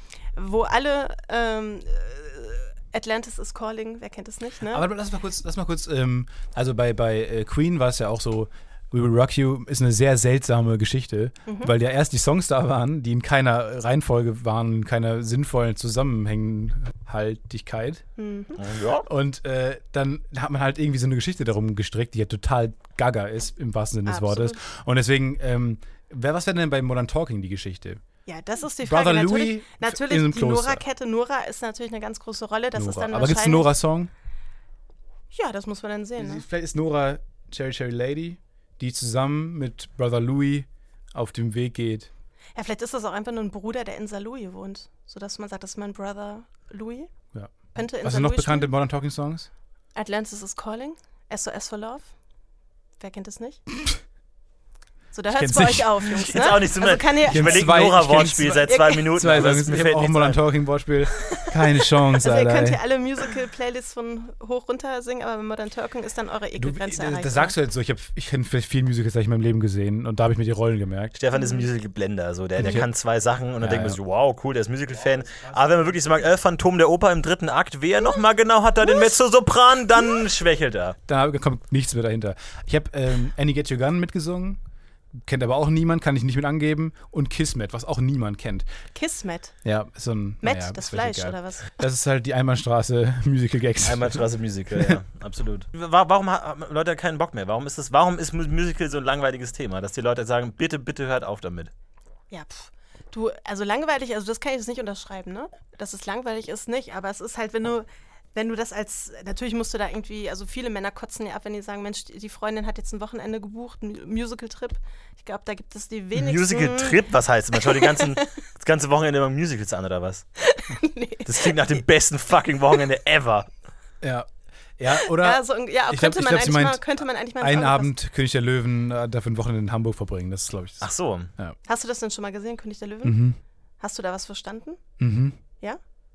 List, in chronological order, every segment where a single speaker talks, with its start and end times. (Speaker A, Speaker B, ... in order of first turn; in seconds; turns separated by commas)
Speaker A: 0.4-4.9, Speaker B: 4.7-18.0, Speaker A: 11.5-11.7, Speaker A: 18.2-18.6, Speaker C: 18.6-19.1, Speaker B: 19.0-28.0, Speaker A: 24.1-24.6, Speaker A: 28.3-33.7, Speaker B: 28.8-30.8, Speaker B: 32.8-34.1, Speaker A: 35.3-36.5, Speaker B: 36.2-42.1, Speaker A: 42.5-47.1, Speaker B: 47.3-49.5, Speaker A: 47.7-48.7, Speaker A: 49.9-52.1, Speaker A: 53.0-53.6, Speaker A: 55.1-57.7, Speaker B: 55.3-56.0, Speaker C: 56.1-60.5, Speaker B: 57.3-62.8, Speaker A: 58.6-59.0, Speaker A: 62.2-67.6, Speaker B: 66.6-71.2, Speaker C: 71.2-81.0, Speaker A: 71.3-71.7, Speaker B: 72.6-72.9, Speaker B: 73.6-74.0, Speaker B: 81.1-84.6, Speaker B: 85.2-88.7, Speaker A: 88.9-89.5, Speaker B: 89.7-95.0, Speaker A: 90.4-91.8, Speaker C: 93.8-101.7, Speaker A: 102.3-117.0, Speaker C: 116.1-120.3, Speaker A: 117.5-118.2, Speaker A: 120.4-121.8, Speaker C: 121.2-123.5, Speaker B: 124.0-126.9, Speaker A: 125.0-127.9, Speaker B: 127.4-131.6, Speaker C: 130.8-131.3, Speaker A: 131.7-133.2, Speaker B: 133.0-133.4, Speaker A: 133.8-134.8, Speaker B: 135.0-135.4